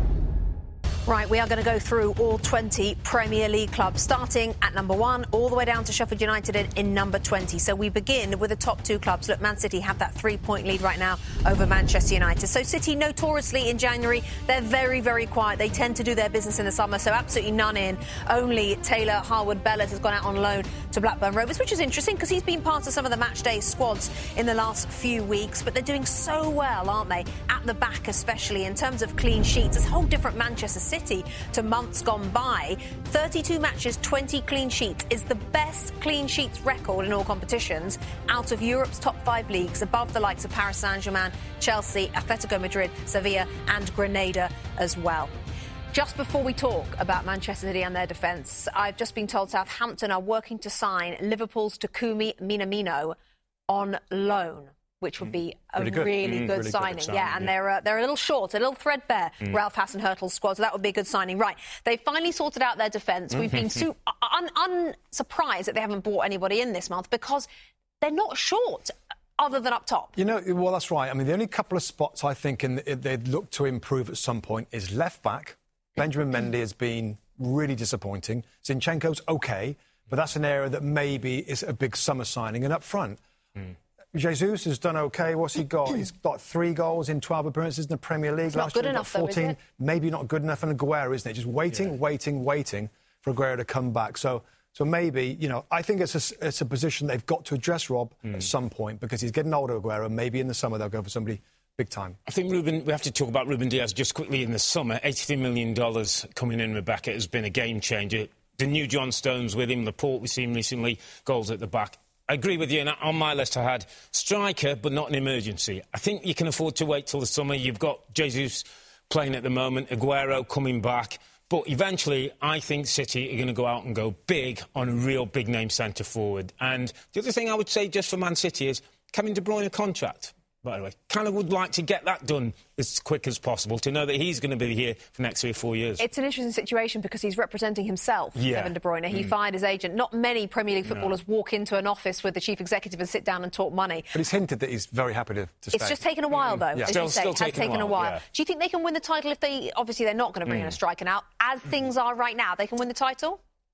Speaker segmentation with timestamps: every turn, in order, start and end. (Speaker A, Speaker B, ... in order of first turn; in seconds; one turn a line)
Speaker A: 1.1-45.3
Speaker A: 45.9-53.2
Speaker A: 53.7-67.5
Speaker B: 55.8-56.9
Speaker C: 56.2-57.5
Speaker A: 68.0-70.2
Speaker B: 70.2-83.2
Speaker B: 84.1-102.2
Speaker A: 88.5-89.6
Speaker C: 102.3-136.0
Speaker A: 136.0-144.1
Speaker C: 138.3-138.8
Speaker B: 144.1-146.0
Speaker A: 145.7-153.4
Speaker C: 146.5-148.2
Speaker C: 150.5-150.8